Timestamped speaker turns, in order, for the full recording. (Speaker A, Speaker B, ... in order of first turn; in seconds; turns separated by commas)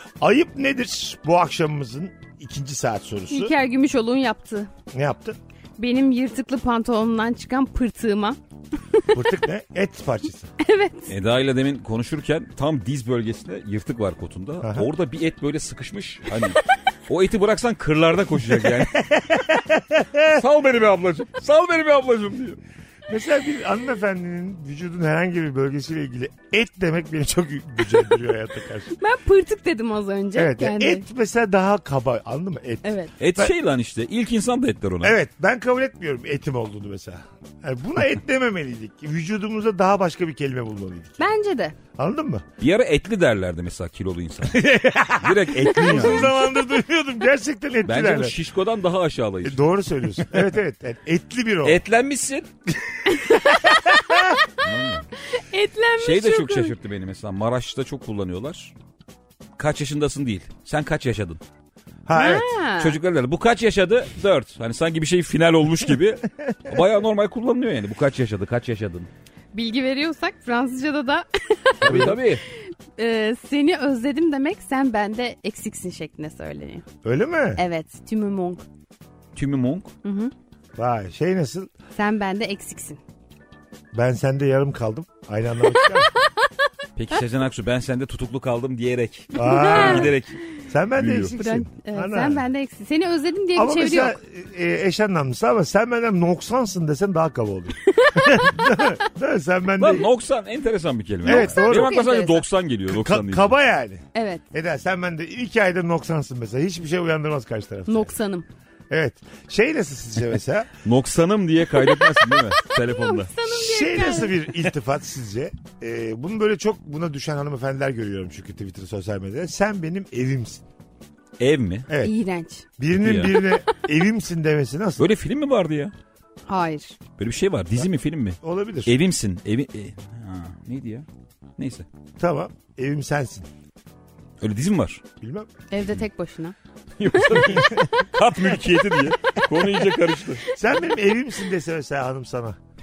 Speaker A: 0.2-3.5, Speaker B: 3.3-4.7, Speaker A: 4.9-5.4, Speaker B: 5.8-8.4, Speaker A: 9.1-10.5, Speaker B: 10.6-11.1, Speaker C: 11.1-19.1, Speaker A: 14.6-14.9, Speaker A: 18.8-20.4, Speaker C: 20.3-22.6, Speaker A: 23.1-28.9, Speaker B: 29.0-31.0, Speaker A: 30.3-33.5, Speaker B: 32.8-33.1, Speaker C: 33.2-35.1, Speaker A: 35.0-41.3, Speaker B: 41.2-41.8, Speaker A: 42.0-42.4, Speaker C: 42.6-46.4, Speaker A: 44.4-48.4, Speaker B: 45.7-46.3, Speaker C: 47.8-49.6, Speaker A: 49.4-51.8, Speaker C: 51.6-52.5, Speaker B: 53.1-54.2, Speaker C: 54.6-55.1, Speaker B: 55.3-56.7, Speaker C: 56.0-58.7, Speaker C: 59.6-61.4, Speaker A: 62.0-62.5, Speaker B: 62.1-63.0, Speaker C: 62.8-69.1, Speaker B: 69.5-72.2, Speaker C: 71.8-72.4, Speaker A: 71.8-72.2, Speaker B: 72.9-76.8, Speaker A: 77.0-77.6, Speaker B: 77.6-78.6, Speaker C: 79.3-79.9, Speaker B: 80.0-80.3, Speaker A: 80.8-81.7, Speaker B: 81.9-83.0, Speaker A: 83.9-86.1, Speaker C: 87.0-90.4, Speaker A: 89.3-90.2, Speaker B: 89.3-90.1, Speaker A: 90.7-92.5, Speaker C: 90.9-91.3, Speaker B: 91.4-94.2, Speaker A: 93.5-100.1, Speaker B: 97.8-98.5, Speaker C: 99.8-103.5, Speaker A: 101.2-102.0, Speaker B: 101.2-102.4, Speaker A: 102.9-108.1, Speaker B: 104.1-104.4, Speaker B: 107.9-108.5, Speaker A: 108.9-110.7, Speaker C: 110.8-113.3, Speaker B: 111.8-114.4, Speaker A: 113.5-120.6, Speaker C: 121.4-121.9, Speaker A: 121.9-122.1, Speaker B: 122.0-122.7, Speaker A: 122.8-125.1, Speaker C: 122.9-123.4, Speaker C: 125.0-125.9, Speaker B: 126.5-127.0, Speaker C: 127.2-131.1, Speaker A: 128.4-128.9, Speaker C: 131.6-131.8, Speaker A: 132.2-133.4, Speaker C: 134.4-135.0, Speaker A: 135.2-135.5, Speaker B: 135.7-136.5, Speaker C: 137.0-140.4, Speaker B: 137.1-137.5, Speaker A: 137.6-137.9, Speaker A: 140.5-142.6